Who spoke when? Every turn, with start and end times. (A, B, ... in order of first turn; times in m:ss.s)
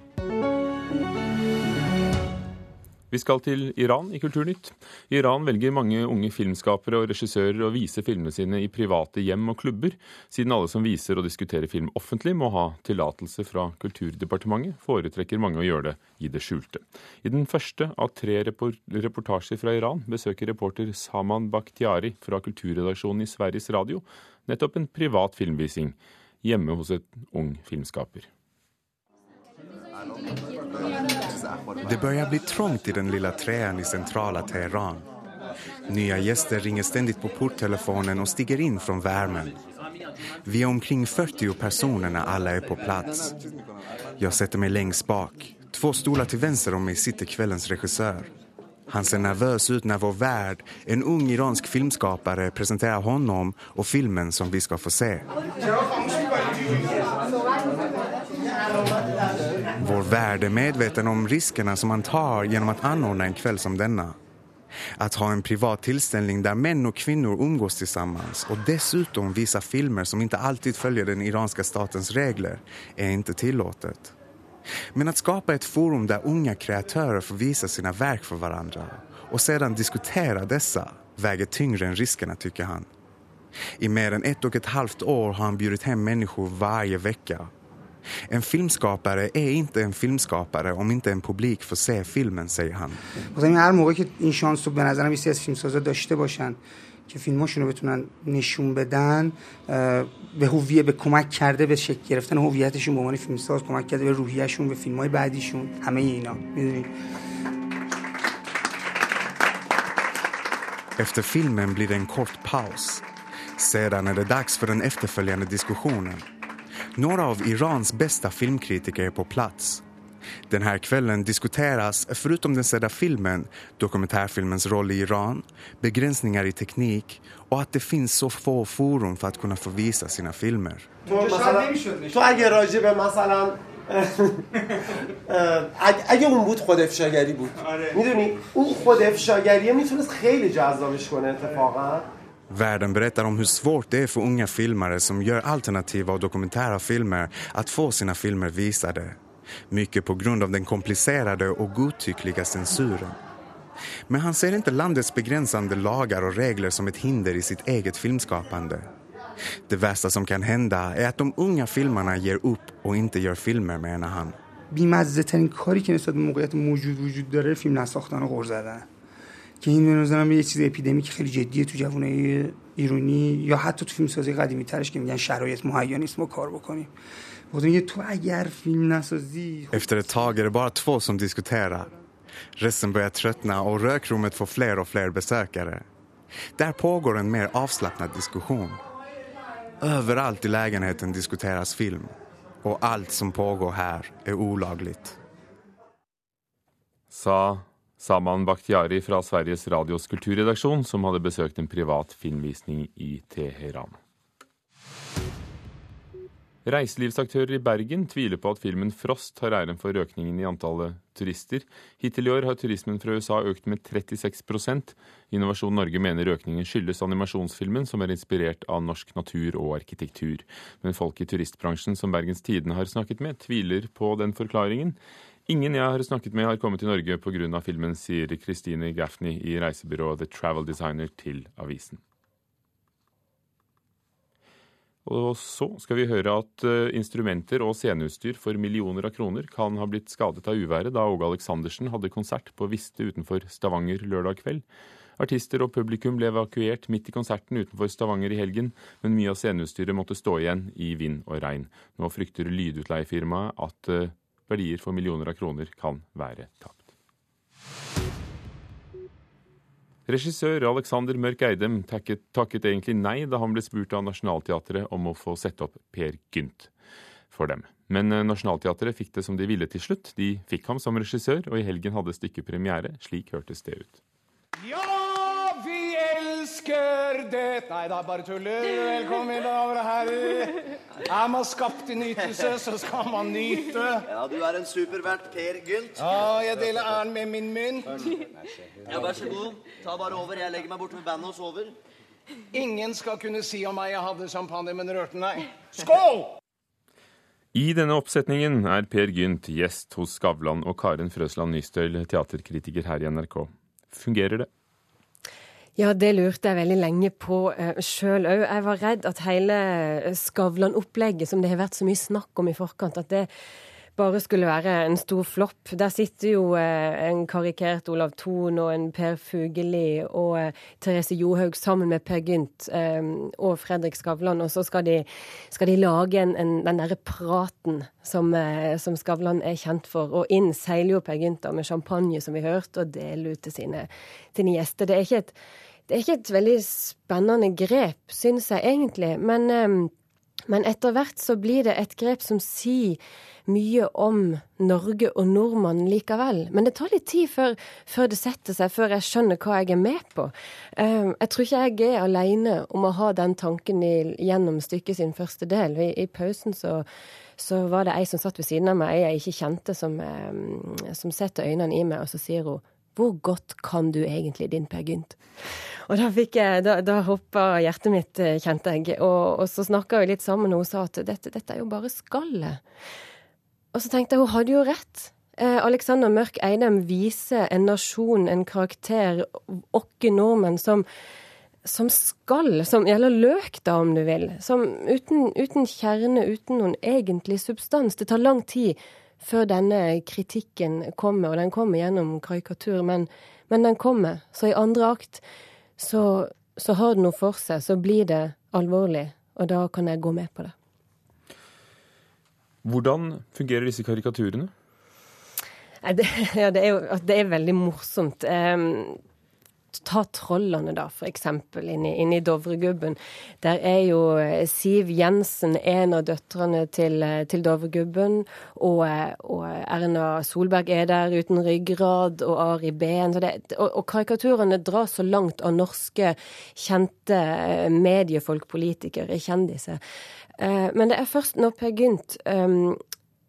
0:03.1-0:28.3 A
0:31.8-0:35.0 B
0:35.9-0:39.6 B
0:40.4-0:43.4 B
0:44.2-0:48.3 B
0:48.9-0:55.2 B
0:59.8-1:04.2 B
1:05.0-1:14.1 B
1:14.9-1:22.9 B
1:23.8-1:27.5 B
1:28.3-1:33.0 B
1:33.3-1:46.9 C
1:51.0-1:53.0 B
1:53.6-1:56.2 B
1:56.9-1:59.8 B
2:00.5-2:11.0 B
2:11.0-2:14.4 D
2:15.2-2:22.0 D
2:22.5-2:29.2 B
2:29.7-2:33.2 B
2:34.1-2:38.9 B
2:39.7-2:44.4 B
2:44.7-2:48.9 C
2:49.6-2:56.9 C
2:57.5-3:00.2 C
2:59.7-3:01.9 B
3:02.6-3:05.8 B
3:06.6-3:08.8 B
3:09.8-3:15.2 B
3:17.1-3:24.0 A
3:26.6-3:52.0 A
3:55.0-4:04.6 A
4:05.2-4:16.9 A
4:20.1-4:26.7 A
4:27.3-4:34.0 A
4:34.7-4:40.5 E
4:41.1-4:43.9 E
4:44.1-4:46.0 F
4:44.2-4:46.1 D
4:46.1-4:47.8 E
4:48.9-4:50.3 D
4:48.9-4:51.7 F
4:52.5-4:56.3 E
4:57.5-5:04.5 A
5:05.8-5:13.3 G
5:14.0-5:35.3 G
5:35.9-5:39.9 G
5:40.5-5:56.8 G
5:57.4-6:05.2 G
6:05.9-6:12.6 G
6:13.7-6:20.8 G
6:21.6-6:35.2 G
6:35.8-6:40.5 G
6:42.6-6:44.5 A
6:45.8-6:49.0 G
6:49.7-7:09.8 G
7:10.4-7:12.8 G